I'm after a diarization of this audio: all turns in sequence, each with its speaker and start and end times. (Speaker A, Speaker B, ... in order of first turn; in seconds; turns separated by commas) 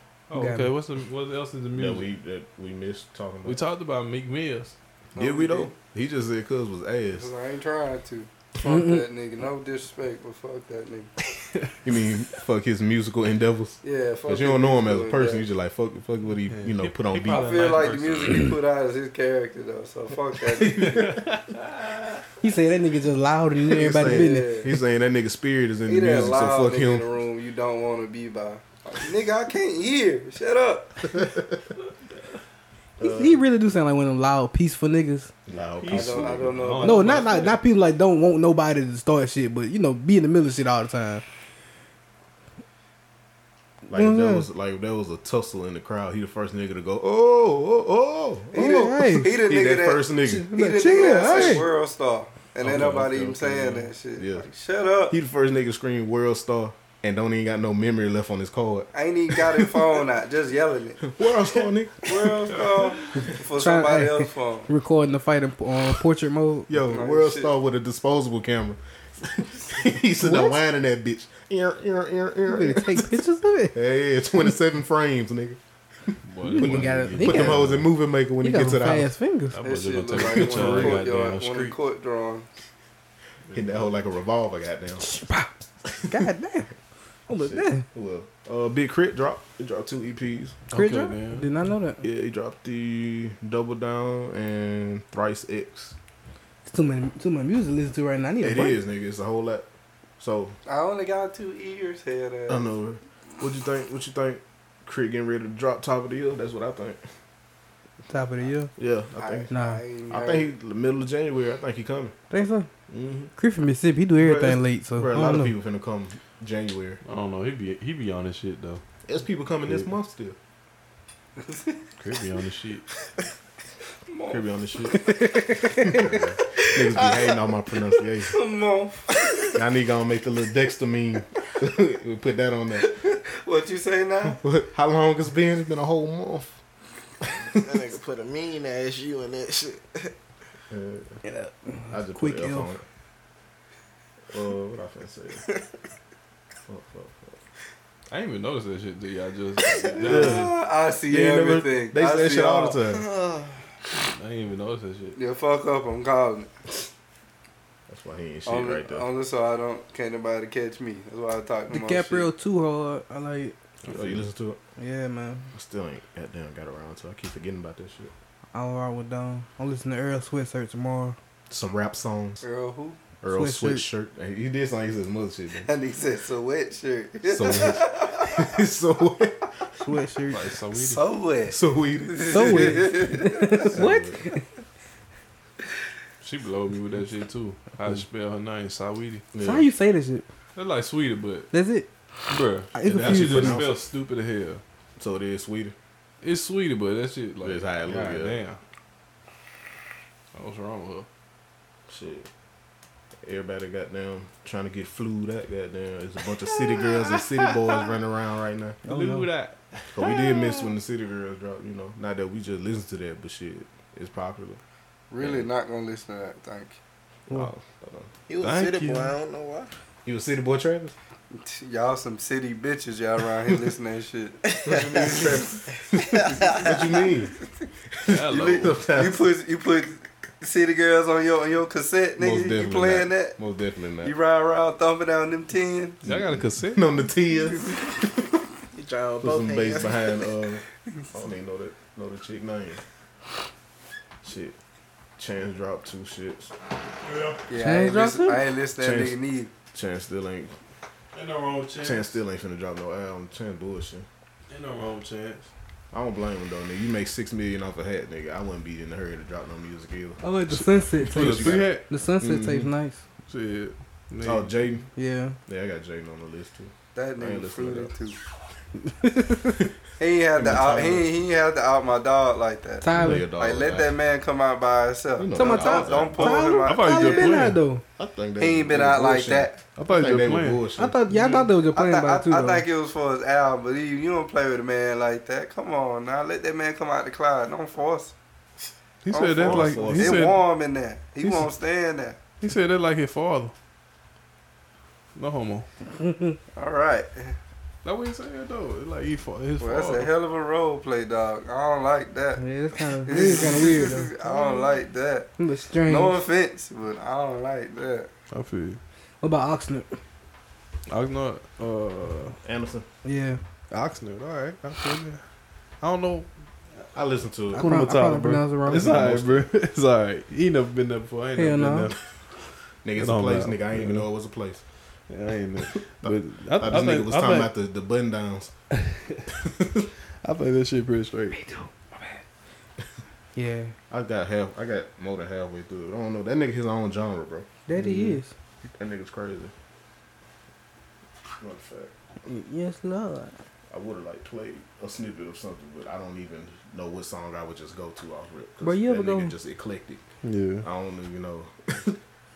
Speaker A: 0.3-2.1, Speaker B: 0.3-0.7, Speaker C: 1.7-3.6, Speaker A: 3.5-4.8, Speaker D: 5.2-5.7, Speaker C: 5.2-7.3, Speaker D: 7.1-11.1, Speaker B: 8.6-9.1, Speaker C: 11.8-17.5, Speaker D: 13.8-15.5, Speaker A: 16.5-18.5, Speaker D: 17.3-21.0, Speaker C: 20.6-21.2, Speaker A: 20.9-22.1, Speaker B: 22.4-24.6, Speaker C: 23.7-27.1, Speaker D: 24.0-24.7, Speaker D: 25.9-31.1, Speaker C: 31.1-31.5, Speaker C: 33.0-33.4, Speaker B: 33.0-35.3, Speaker C: 35.5-36.7, Speaker A: 35.8-37.6, Speaker D: 35.9-37.2, Speaker B: 36.8-41.2, Speaker B: 43.9-44.5, Speaker C: 43.9-51.6, Speaker D: 48.5-55.2, Speaker B: 48.6-49.4, Speaker B: 50.2-51.7, Speaker A: 52.6-53.9, Speaker C: 52.7-53.1, Speaker C: 54.1-54.5, Speaker C: 55.1-59.8, Speaker D: 58.9-64.7, Speaker C: 61.0-62.4, Speaker B: 63.6-66.7, Speaker C: 66.7-73.2, Speaker D: 66.9-67.5, Speaker B: 70.2-70.6, Speaker B: 72.5-73.8, Speaker C: 73.7-79.1, Speaker A: 76.3-77.8, Speaker B: 76.4-77.8, Speaker B: 78.4-79.6, Speaker A: 79.5-81.8, Speaker D: 79.6-82.5, Speaker C: 80.2-81.0, Speaker A: 83.5-84.0, Speaker C: 83.5-85.1, Speaker B: 85.0-85.5, Speaker C: 85.9-86.2, Speaker B: 86.1-86.7, Speaker B: 87.3-87.8, Speaker C: 87.4-90.6, Speaker A: 90.7-91.5, Speaker B: 90.7-92.0, Speaker C: 92.0-96.0, Speaker B: 96.7-98.8, Speaker C: 98.4-99.7, Speaker C: 100.2-100.6, Speaker D: 100.7-102.7, Speaker C: 102.5-107.0, Speaker B: 108.1-108.7, Speaker C: 108.8-109.5, Speaker D: 109.2-110.5, Speaker B: 109.5-109.8, Speaker C: 110.1-112.2, Speaker B: 112.3-112.7, Speaker C: 112.9-113.3, Speaker B: 113.4-115.5, Speaker C: 114.2-117.0, Speaker A: 117.0-118.8, Speaker C: 119.1-120.4, Speaker D: 121.4-121.7, Speaker A: 122.0-122.8, Speaker D: 124.1-124.4, Speaker C: 124.3-125.2, Speaker B: 125.0-126.2, Speaker C: 125.7-128.3, Speaker D: 128.3-129.1, Speaker C: 129.5-132.9, Speaker D: 132.8-134.4, Speaker C: 134.3-136.6, Speaker C: 137.5-137.8, Speaker E: 137.5-140.1, Speaker C: 140.7-141.2, Speaker B: 141.2-142.7, Speaker C: 141.9-142.8, Speaker C: 144.3-145.4, Speaker C: 146.7-147.4, Speaker A: 148.1-150.5, Speaker C: 150.0-153.1, Speaker D: 150.0-152.8, Speaker E: 152.9-153.6, Speaker A: 154.1-155.2, Speaker D: 155.2-156.5, Speaker C: 157.9-159.1, Speaker D: 158.5-162.3, Speaker B: 161.7-163.6, Speaker A: 163.9-164.2, Speaker C: 163.9-164.6, Speaker B: 164.8-165.5, Speaker C: 165.5-168.1, Speaker B: 168.5-171.2, Speaker C: 171.5-172.4, Speaker D: 172.4-173.0, Speaker C: 173.2-175.7, Speaker B: 173.3-173.8, Speaker D: 175.7-178.4, Speaker C: 177.2-179.6, Speaker B: 179.8-180.5, Speaker A: 180.3-181.0, Speaker D: 180.8-183.6, Speaker C: 181.5-182.9, Speaker B: 182.3-184.4, Speaker C: 183.7-184.2, Speaker A: 186.2-189.3, Speaker C: 189.3-189.7, Speaker B: 189.4-190.2, Speaker A: 190.6-191.5, Speaker B: 191.5-191.9, Speaker A: 192.3-194.6, Speaker B: 192.7-193.7, Speaker C: 192.8-193.8, Speaker C: 195.0-195.8, Speaker A: 196.2-198.6, Speaker C: 197.4-198.4, Speaker A: 200.3-201.1, Speaker C: 201.9-202.3, Speaker C: 203.2-208.8, Speaker A: 206.4-207.9, Speaker B: 208.8-209.3, Speaker A: 208.9-210.6, Speaker C: 209.9-214.6, Speaker D: 215.1-216.8, Speaker C: 215.2-215.5, Speaker C: 217.3-218.1, Speaker E: 218.3-219.7, Speaker A: 218.4-219.1, Speaker C: 220.1-220.9, Speaker D: 221.3-225.3, Speaker E: 224.5-225.3, Speaker C: 224.6-227.3, Speaker E: 226.0-226.7, Speaker C: 227.9-229.3, Speaker A: 228.1-228.8, Speaker D: 228.3-233.4, Speaker C: 232.2-234.1, Speaker D: 234.0-236.0, Speaker A: 236.0-236.9, Speaker C: 236.0-238.4, Speaker E: 238.7-240.2, Speaker C: 239.2-242.8, Speaker C: 244.2-244.6, Speaker C: 245.2-246.5, Speaker A: 247.1-247.4, Speaker D: 247.5-249.5, Speaker B: 247.6-248.5, Speaker C: 248.8-249.2, Speaker C: 249.7-250.5, Speaker A: 251.1-252.2, Speaker C: 251.8-254.1, Speaker A: 254.5-255.5, Speaker C: 255.9-260.2, Speaker B: 260.2-263.0, Speaker A: 260.5-261.9, Speaker C: 261.1-262.7, Speaker A: 263.3-264.5, Speaker C: 264.2-264.9, Speaker B: 265.0-265.4, Speaker C: 265.5-267.9, Speaker D: 266.9-268.2, Speaker B: 268.9-269.6, Speaker D: 270.0-277.3, Speaker C: 270.3-271.1, Speaker B: 272.8-273.3, Speaker C: 273.0-273.9, Speaker C: 275.2-276.3, Speaker B: 275.4-277.8, Speaker A: 276.2-277.6, Speaker C: 278.0-281.0, Speaker D: 278.4-279.6, Speaker A: 279.8-280.7, Speaker B: 280.8-282.7, Speaker D: 281.1-288.1, Speaker A: 289.0-290.4, Speaker D: 289.1-292.2, Speaker C: 289.4-290.3, Speaker A: 291.2-291.5, Speaker A: 292.4-293.5, Speaker A: 295.2-295.7, Speaker B: 296.0-296.4, Speaker D: 296.6-297.4, Speaker A: 297.8-300.1, Speaker D: 299.6-302.4, Speaker B: 302.4-304.8, Speaker D: 303.0-305.3, Speaker B: 305.4-306.2, Speaker D: 305.9-308.1, Speaker A: 308.3-308.8, Speaker B: 309.2-310.0, Speaker A: 310.9-312.4, Speaker C: 312.4-312.9, Speaker B: 313.1-313.4, Speaker A: 313.7-315.2, Speaker A: 315.8-316.3, Speaker C: 316.9-317.7, Speaker B: 317.5-319.1, Speaker A: 317.6-322.0, Speaker C: 318.7-319.5, Speaker B: 321.4-321.9, Speaker C: 322.8-324.6, Speaker A: 323.0-324.1, Speaker A: 325.1-327.5, Speaker C: 326.0-328.5, Speaker A: 328.8-329.2, Speaker C: 329.3-329.9, Speaker A: 330.2-332.2, Speaker B: 333.4-333.8, Speaker C: 333.9-337.5, Speaker B: 337.7-338.3, Speaker A: 337.7-338.2, Speaker C: 338.8-339.5, Speaker C: 341.4-341.9, Speaker B: 342.2-343.4, Speaker C: 343.7-350.0, Speaker B: 348.6-349.3, Speaker A: 350.2-350.7, Speaker C: 350.6-352.0